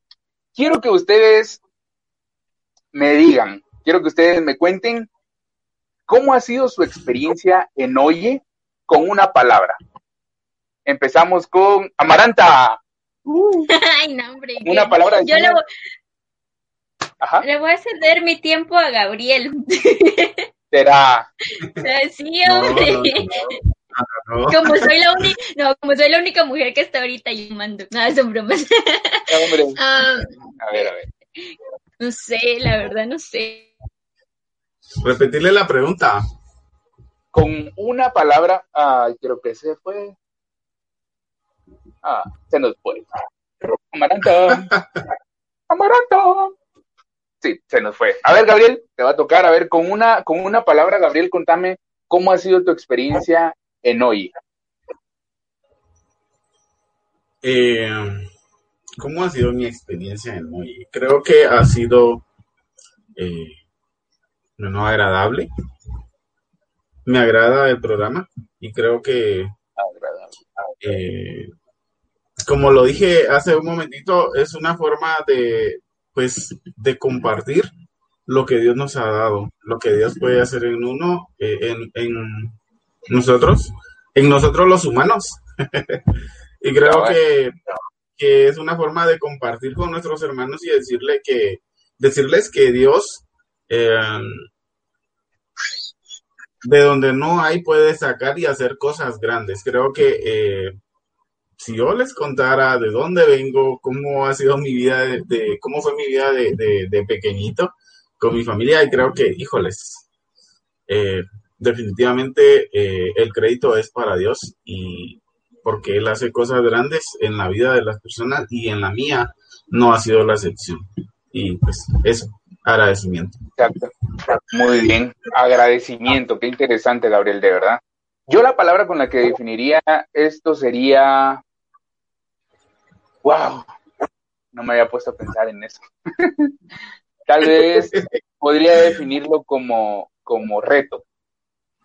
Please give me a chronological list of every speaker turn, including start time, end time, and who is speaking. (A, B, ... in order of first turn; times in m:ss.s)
0:00.6-0:01.6 A
0:02.9-0:05.1 A
0:06.1-0:09.8 A
0:10.9-0:13.7 A
0:13.7-0:15.6 B
0:14.6-0:15.6 A
0:17.4-0:20.5 B
0:20.7-0:21.3 A
0:21.7-0:23.6 B
0:22.4-0:25.3 C
0:24.5-0:30.8 B
0:29.3-0:29.8 A
0:30.6-0:31.1 A
0:31.4-0:33.7 B
0:35.0-0:36.2 C
0:37.3-0:40.2 A
0:42.0-0:43.1 A
0:43.9-0:44.7 A
0:44.5-0:45.0 C
0:45.7-0:46.6 A
0:47.4-0:54.3 A
0:57.4-0:58.3 C
0:59.0-1:02.2 C
1:03.2-1:03.6 C
1:04.6-1:05.5 C
1:07.1-1:09.5 C
1:09.8-1:10.7 A
1:10.8-1:11.5 C
1:12.5-1:17.7 C
1:18.3-1:22.6 C
1:23.1-1:26.0 C
1:26.6-1:27.5 C
1:26.8-1:27.2 A
1:28.2-1:34.5 C
1:36.6-1:40.7 C
1:41.6-1:50.1 C
1:50.9-2:03.4 C
2:03.6-2:03.9 A
2:04.5-2:11.4 A
2:13.2-2:13.7 A
2:14.5-2:16.5 A
2:17.3-2:21.0 A
2:17.7-2:18.2 C